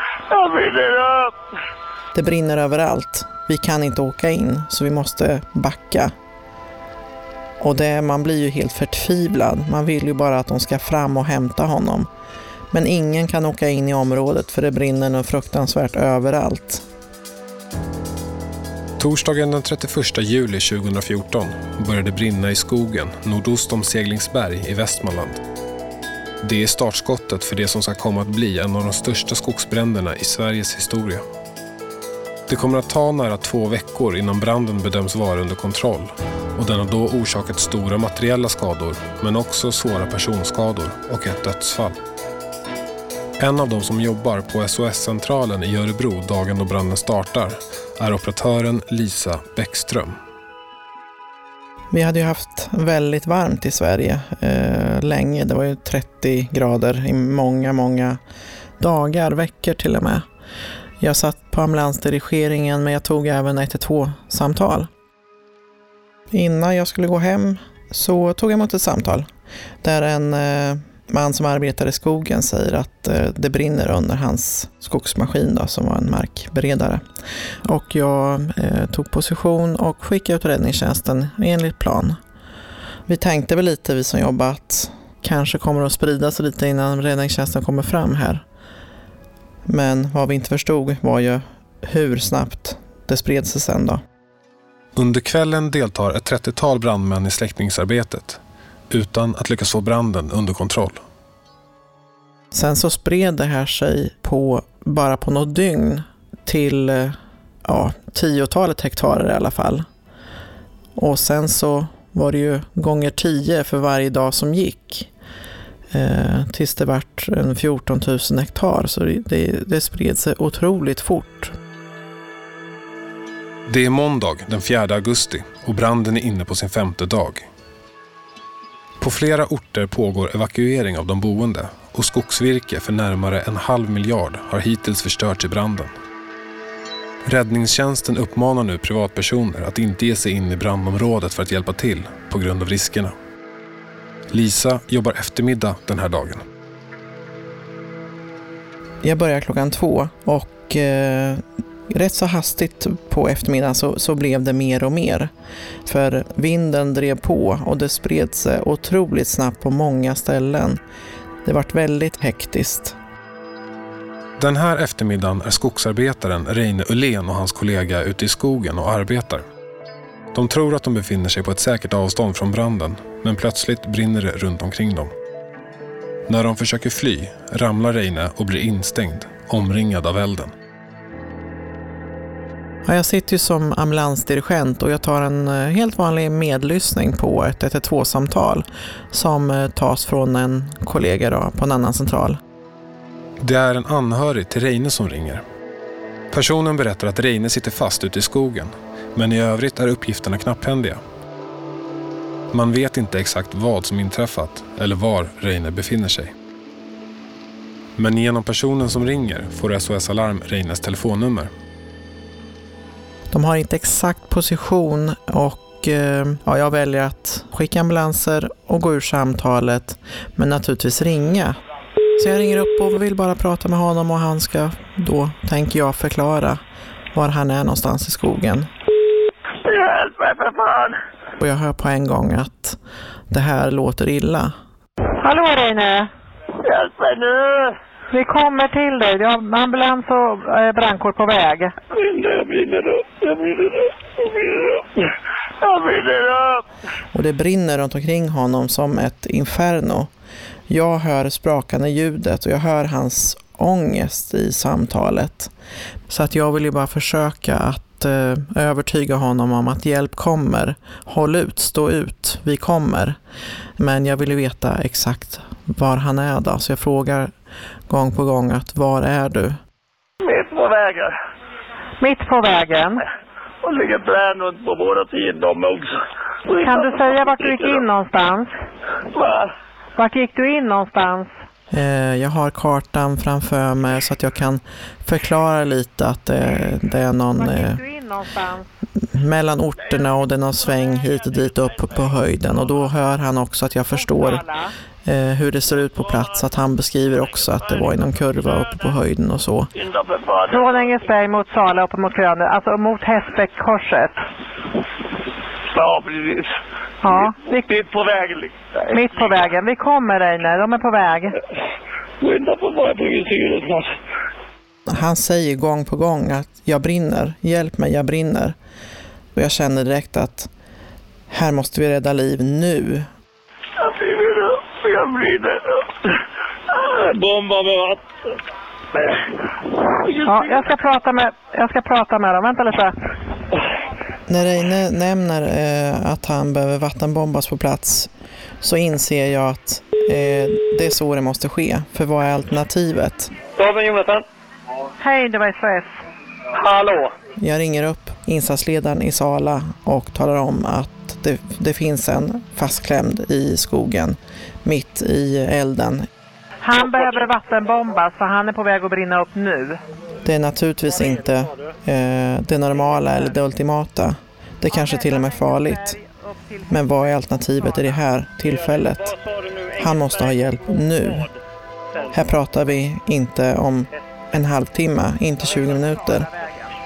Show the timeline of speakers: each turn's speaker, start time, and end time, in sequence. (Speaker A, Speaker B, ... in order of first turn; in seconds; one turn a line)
Speaker A: 0.3-1.3
Speaker B: 2.1-6.1
Speaker B: 7.6-12.1
Speaker B: 12.7-16.8
Speaker C: 19.0-25.4
Speaker C: 26.4-31.2
Speaker C: 32.5-42.0
Speaker C: 43.4-50.1
Speaker B: 51.9-58.2
Speaker B: 58.8-60.2
Speaker B: 61.0-64.9
Speaker B: 66.3-69.3
Speaker B: 69.8-77.0
Speaker B: 77.7-82.2
Speaker B: 83.1-88.4
Speaker B: 89.7-94.0
Speaker C: 95.0-101.0
Speaker B: 102.5-109.8
Speaker B: 111.0-115.1
Speaker B: 115.9-121.5
Speaker C: 123.7-127.5
Speaker C: 129.0-135.9
Speaker C: 137.2-143.1
Speaker C: 144.3-146.4
Speaker B: 149.0-155.3
Speaker B: 155.9-160.8
Speaker B: 161.4-163.0
Speaker C: 164.4-169.4
Speaker C: 170.3-175.1
Speaker C: 176.3-180.5
Speaker B: 182.8-192.4
Speaker C: 193.4-195.4
Speaker C: 196.3-201.0
Speaker C: 202.5-206.3
Speaker C: 208.0-211.5
Speaker B: 213.3-221.6
Speaker B: 222.2-226.6
Speaker B: 227.1-228.7
Speaker A: 229.6-231.0
Speaker B: 231.4-232.8
Speaker B: 233.3-234.5
Speaker D: 235.2-236.1
Speaker A: 236.6-237.8
Speaker D: 238.1-241.7
Speaker A: 241.9-245.1
Speaker A: 245.6-246.6
Speaker B: 247.1-250.1
Speaker B: 250.7-255.5
Speaker B: 256.1-263.2
Speaker B: 263.8-267.3
Speaker B: 267.9-269.6
Speaker A: 270.2-271.1
Speaker D: 272.0-273.0
Speaker A: 273.6-277.8
Speaker D: 276.6-278.5
Speaker A: 279.1-279.5
Speaker D: 280.0-281.3
Speaker B: 281.7-287.8
Speaker D: 287.4-288.7
Speaker B: 289.0-294.4
Speaker D: 293.9-294.7
Speaker B: 295.1-299.7
Speaker A: 299.8-300.9
Speaker D: 300.5-304.1
Speaker A: 305.7-306.5
Speaker D: 307.0-307.6
Speaker A: 307.1-309.4
Speaker D: 308.9-311.4
Speaker A: 312.2-314.0
Speaker B: 314.9-318.6
Speaker B: 319.3-320.5
Speaker B: 321.3-323.1
Speaker A: 323.8-326.2
Speaker A: 326.7-328.0
Speaker A: 330.0-330.6
Speaker D: 330.2-333.0
Speaker B: 334.3-338.1
Speaker B: 338.6-343.3
Speaker E: 343.6-344.2
Speaker D: 345.0-345.9
Speaker E: 346.5-347.1
Speaker B: 347.4-356.1
Speaker D: 356.6-359.8
Speaker E: 356.8-357.1
Speaker B: 360.2-366.0
Speaker E: 360.9-361.7
Speaker D: 364.7-368.0
Speaker B: 366.7-369.1
Speaker E: 368.5-371.3
Speaker B: 369.8-371.3
Speaker B: 372.1-376.3
Speaker D: 375.5-376.8